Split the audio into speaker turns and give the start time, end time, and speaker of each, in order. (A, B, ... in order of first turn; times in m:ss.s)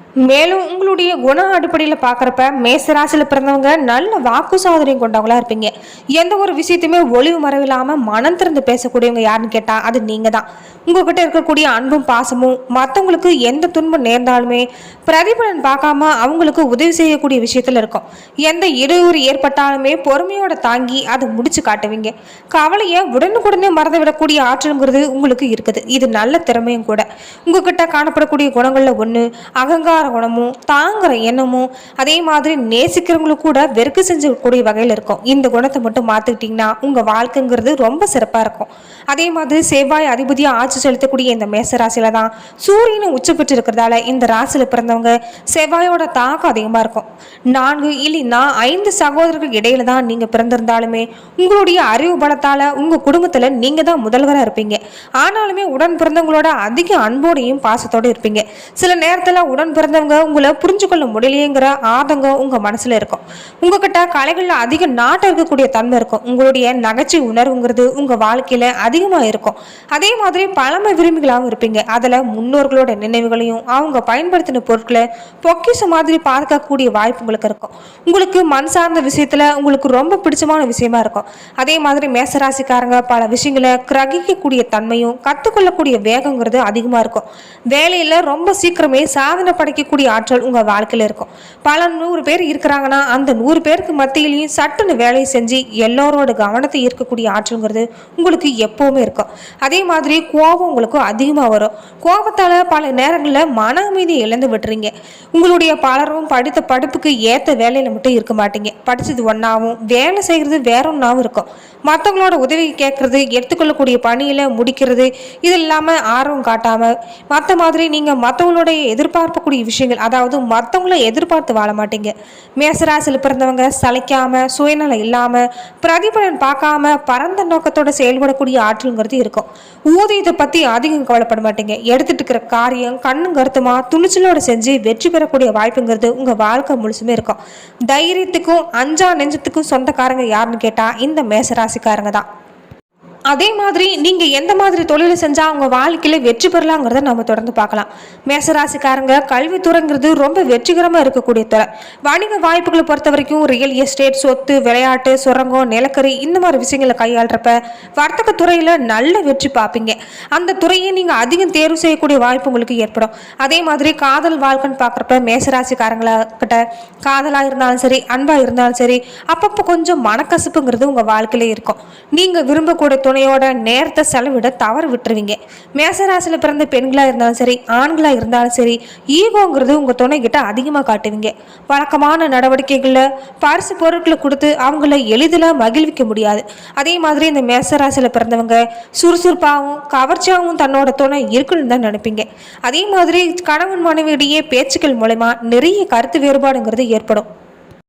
0:00.2-2:22.2 A
2:23.3-3:17.2 A